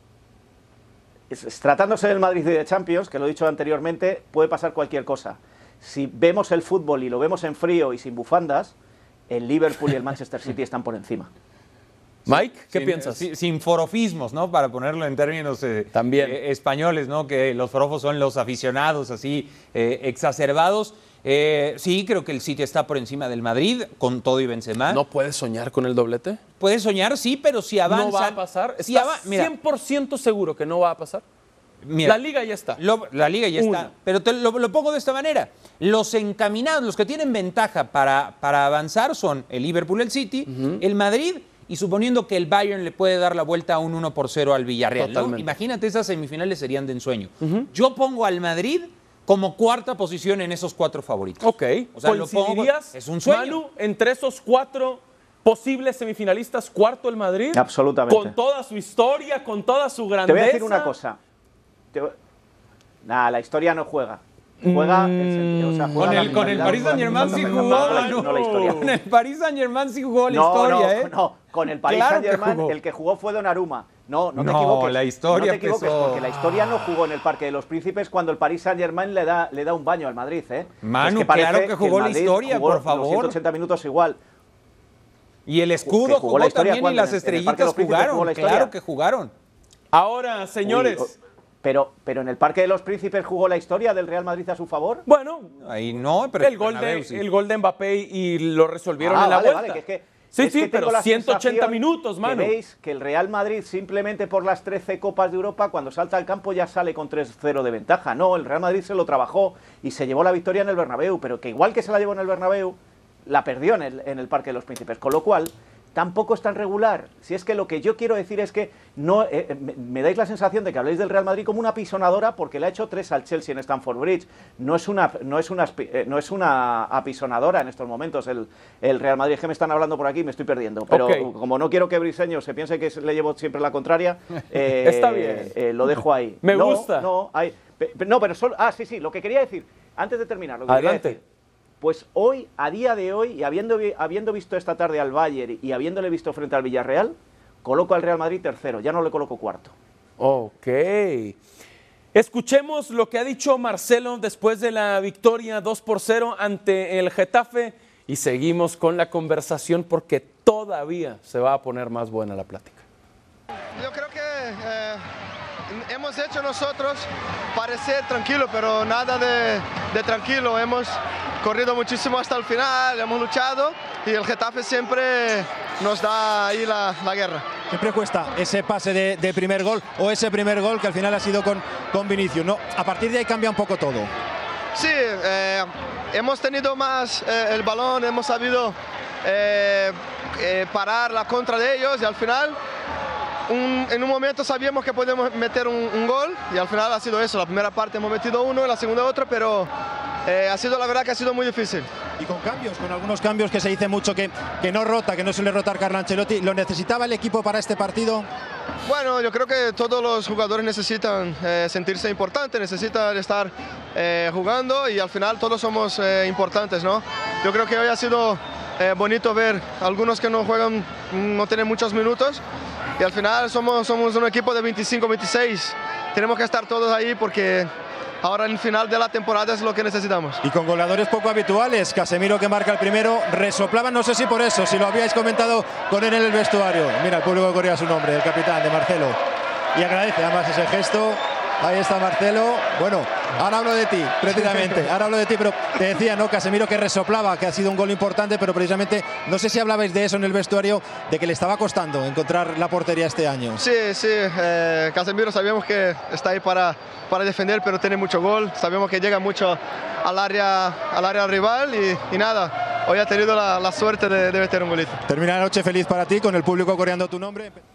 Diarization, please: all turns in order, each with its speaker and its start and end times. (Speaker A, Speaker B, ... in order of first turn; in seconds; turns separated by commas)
Speaker A: 1.3-8.7, Speaker A: 9.3-11.3, Speaker B: 12.3-13.3, Speaker C: 12.3-25.0, Speaker B: 15.9-16.4, Speaker B: 24.9-26.4, Speaker C: 26.6-29.5, Speaker B: 27.9-31.2, Speaker C: 31.8-32.2, Speaker B: 32.0-32.8, Speaker C: 32.8-53.6, Speaker B: 33.6-33.9, Speaker B: 40.5-40.8, Speaker B: 45.0-45.5, Speaker B: 47.4-47.7, Speaker B: 51.4-60.9, Speaker A: 57.5-58.4, Speaker A: 60.3-61.2, Speaker A: 63.0-68.9, Speaker B: 64.6-68.9, Speaker C: 66.0-71.1, Speaker A: 70.3-84.2, Speaker C: 71.8-72.8, Speaker C: 74.3-76.4, Speaker C: 80.8-83.4, Speaker C: 85.5-89.3, Speaker A: 85.8-88.7, Speaker B: 89.9-91.1, Speaker A: 90.7-95.0, Speaker B: 95.1-95.5, Speaker C: 95.6-97.3, Speaker B: 96.4-99.8, Speaker A: 99.0-141.2, Speaker B: 100.3-102.5, Speaker B: 130.9-131.3, Speaker B: 134.8-137.1, Speaker B: 140.7-141.2, Speaker A: 141.8-149.7, Speaker B: 150.2-151.4, Speaker B: 152.1-162.8, Speaker D: 163.8-165.0, Speaker D: 165.7-177.5, Speaker E: 177.7-184.1, Speaker D: 184.8-192.6, Speaker D: 193.5-199.7, Speaker D: 200.3-201.9, Speaker E: 202.2-208.3, Speaker D: 208.9-222.4, Speaker D: 223.0-227.7, Speaker D: 228.2-230.4, Speaker E: 230.4-239.2, Speaker E: 239.7-253.6, Speaker D: 253.6-265.0, Speaker E: 265.1-267.6